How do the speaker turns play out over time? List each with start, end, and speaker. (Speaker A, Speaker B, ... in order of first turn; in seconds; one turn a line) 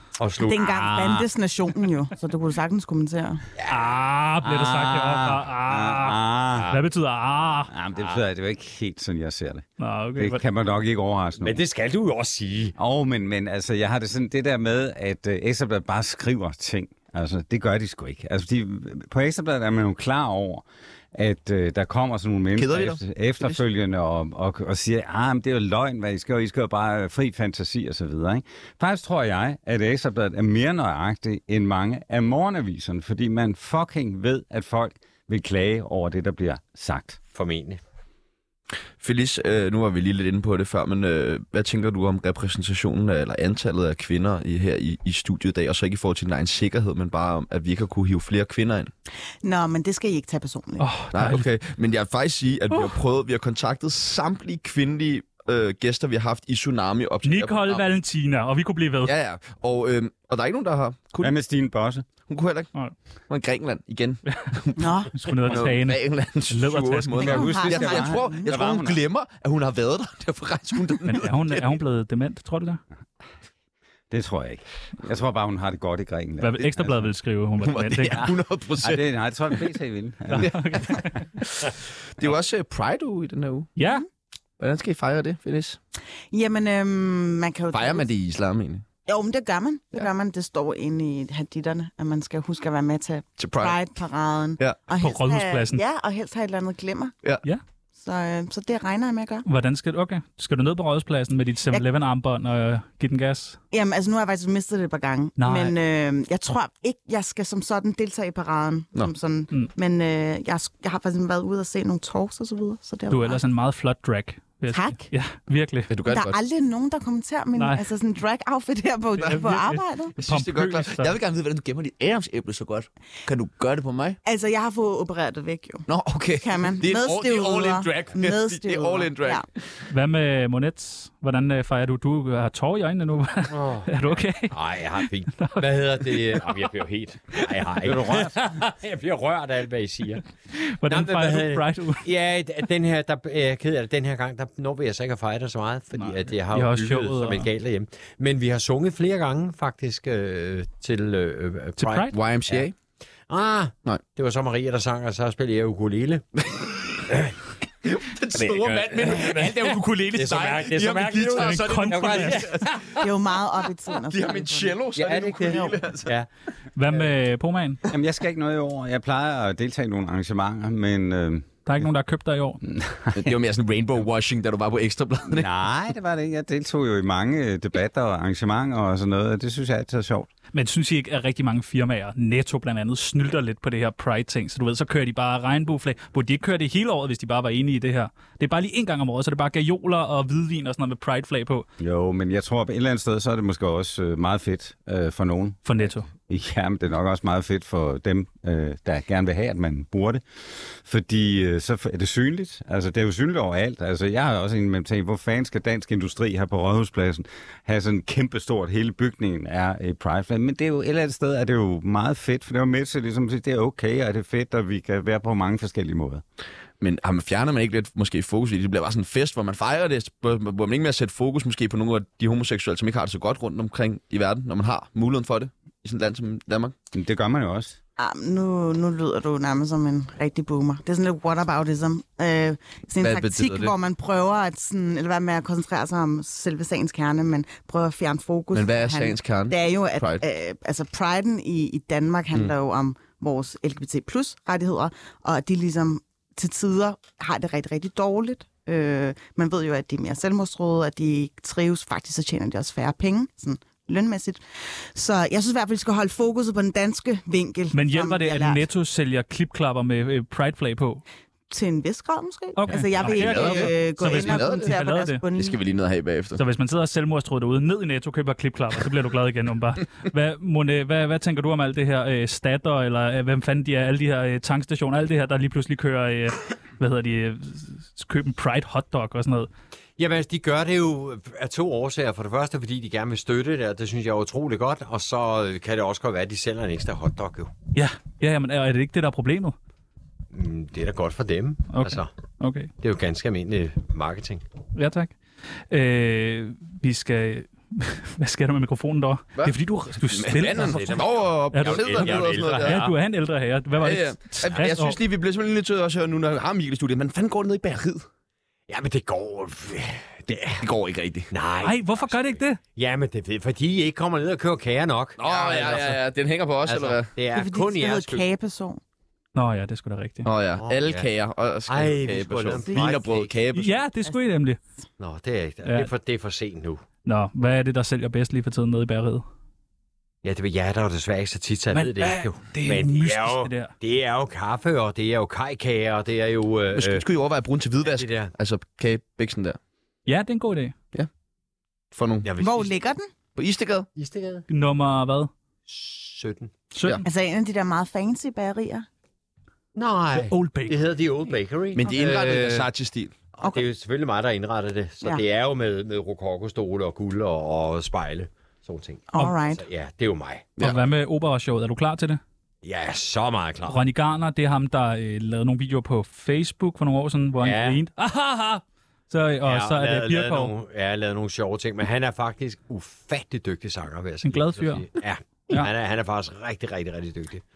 Speaker A: 0.2-0.7
Speaker B: 0.4-3.4
Speaker C: 0.6-1.3
Speaker A: 3.6-4.0
Speaker D: 3.7-7.7
Speaker C: 4.4-6.8
Speaker A: 6.5-6.8
Speaker C: 7.7-11.6
Speaker D: 9.8-10.4
Speaker A: 11.4-12.8
Speaker C: 12.8-37.2
Speaker E: 22.6-23.6
Speaker A: 37.3-37.8
Speaker E: 39.0-48.9
Speaker B: 49.4-50.9
Speaker D: 50.8-51.5
Speaker E: 51.1-57.9
Speaker D: 52.7-53.0
Speaker D: 57.2-59.1
Speaker E: 59.0-61.2
Speaker C: 61.2-62.1
Speaker E: 62.2-62.7
Speaker E: 63.3-71.7
Speaker D: 64.3-64.5
Speaker B: 64.8-65.1
Speaker D: 65.2-67.6
Speaker C: 67.2-69.0
Speaker B: 67.2-68.5
Speaker D: 71.1-72.8
Speaker C: 74.1-77.1
Speaker D: 76.4-78.3
Speaker E: 77.6-79.1
Speaker C: 78.8-81.0
Speaker D: 80.3-81.3
Speaker E: 80.3-83.7
Speaker D: 83.8-84.0
Speaker E: 84.6-85.8
Speaker B: 86.3-88.1
Speaker E: 87.7-88.8
Speaker B: 89.1-97.1
Speaker E: 93.4-93.8
Speaker D: 95.0-95.8
Speaker B: 98.0-99.5
Speaker D: 99.5-103.6
Speaker B: 103.7-113.4
Speaker D: 105.4-105.8
Speaker D: 113.1-115.9
Speaker B: 114.7-115.1
Speaker E: 115.9-116.4
Speaker B: 116.0-120.1
Speaker D: 117.6-117.8
Speaker D: 119.2-121.1
Speaker E: 119.2-119.5
Speaker E: 120.2-124.2
Speaker B: 124.2-129.4
Speaker E: 125.9-129.4
Speaker D: 129.9-136.5
Speaker A: 133.5-133.9
Speaker A: 134.5-140.2
Speaker C: 137.8-138.4
Speaker D: 140.5-142.1
Speaker A: 140.9-152.7
Speaker D: 146.0-147.5
Speaker D: 151.8-152.2
Speaker E: 152.1-152.8
Speaker A: 153.3-156.2
Speaker A: 157.1-157.4
Speaker E: 157.8-163.1
Speaker A: 158.3-162.8
Speaker D: 161.4-162.5
Speaker B: 162.9-164.8
Speaker E: 164.1-166.1
Speaker A: 165.0-166.3
Speaker C: 165.3-165.6
Speaker D: 166.8-167.8
Speaker C: 167.9-171.5
Speaker D: 171.7-172.6
Speaker C: 172.7-173.3
Speaker E: 173.1-175.5
Speaker C: 175.3-180.3
Speaker D: 180.5-191.7
Speaker C: 191.8-195.7
Speaker D: 195.7-196.1
Speaker C: 196.3-216.2
Speaker E: 216.8-226.7
Speaker C: 226.9-227.8
Speaker B: 228.0-258.6
Speaker E: 233.0-233.7
Speaker E: 238.5-240.2
Speaker D: 257.7-261.0
Speaker B: 261.5-265.6
Speaker D: 262.6-265.2
Speaker E: 262.9-264.8
Speaker E: 265.3-266.4
Speaker D: 266.4-279.5
Speaker A: 280.0-287.5
Speaker D: 287.8-289.6
Speaker A: 290.3-292.1
Speaker D: 291.7-292.7
Speaker A: 292.8-294.4
Speaker D: 294.8-295.2
Speaker D: 295.7-305.0
Speaker E: 299.4-302.9
Speaker A: 300.5-302.9
Speaker E: 303.8-308.1
Speaker A: 308.7-310.6
Speaker E: 310.6-311.3
Speaker A: 311.3-316.1
Speaker D: 311.6-312.6
Speaker E: 315.2-317.1
Speaker A: 316.6-318.2
Speaker B: 317.3-318.8
Speaker D: 319.4-320.3
Speaker E: 320.2-323.8
Speaker A: 320.6-321.1
Speaker A: 321.7-323.4
Speaker D: 323.5-324.6
Speaker A: 325.0-326.8
Speaker D: 325.6-325.9
Speaker D: 327.1-329.2
Speaker A: 330.2-337.1
Speaker D: 331.7-333.7
Speaker E: 336.8-339.6
Speaker A: 337.8-338.3
Speaker D: 340.1-340.8
Speaker E: 341.9-342.3
Speaker A: 342.2-342.7
Speaker B: 342.4-343.1
Speaker E: 343.4-343.9
Speaker A: 344.0-344.4
Speaker D: 344.5-345.3
Speaker A: 345.7-346.6
Speaker D: 346.7-347.0
Speaker B: 347.0-348.9
Speaker A: 349.8-352.7
Speaker D: 350.1-350.8
Speaker E: 351.7-353.1
Speaker A: 353.4-360.5
Speaker B: 353.4-353.6
Speaker B: 359.1-359.6
Speaker D: 360.6-362.2
Speaker A: 362.6-363.8
Speaker D: 363.7-370.5
Speaker A: 367.4-367.8
Speaker A: 369.4-377.4
Speaker D: 374.2-374.9